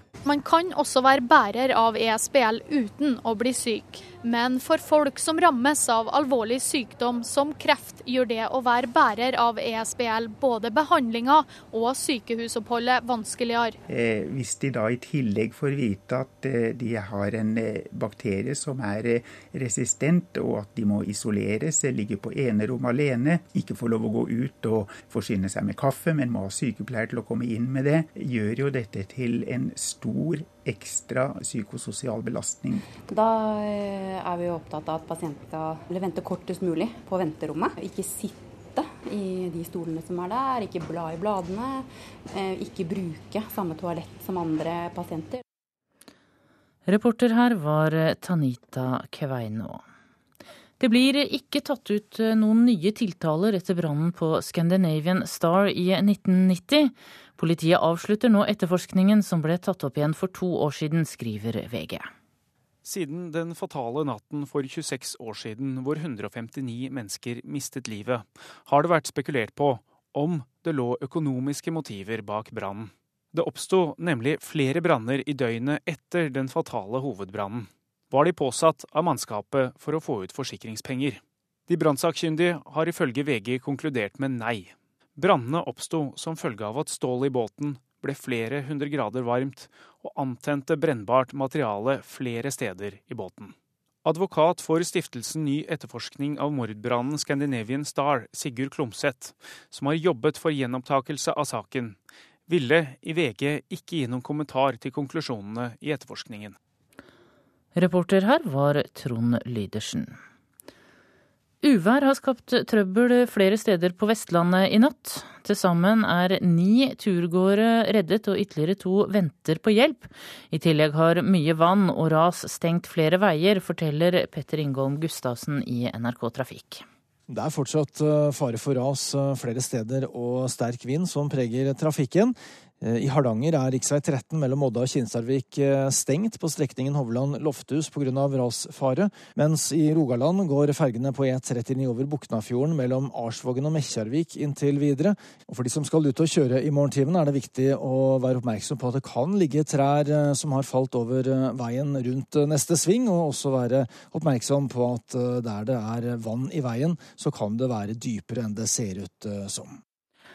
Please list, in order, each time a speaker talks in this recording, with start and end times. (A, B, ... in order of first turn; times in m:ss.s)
0:00.3-0:13.8 A
0:13.9-0:32.9 B
0:33.0-0:45.4 C
0:46.9-0:49.8 D
0:50.8-1:02.1 D
1:02.8-1:46.6 E
1:47.8-1:50.2 D
1:51.6-2:06.8 D
2:07.3-2:39.8 F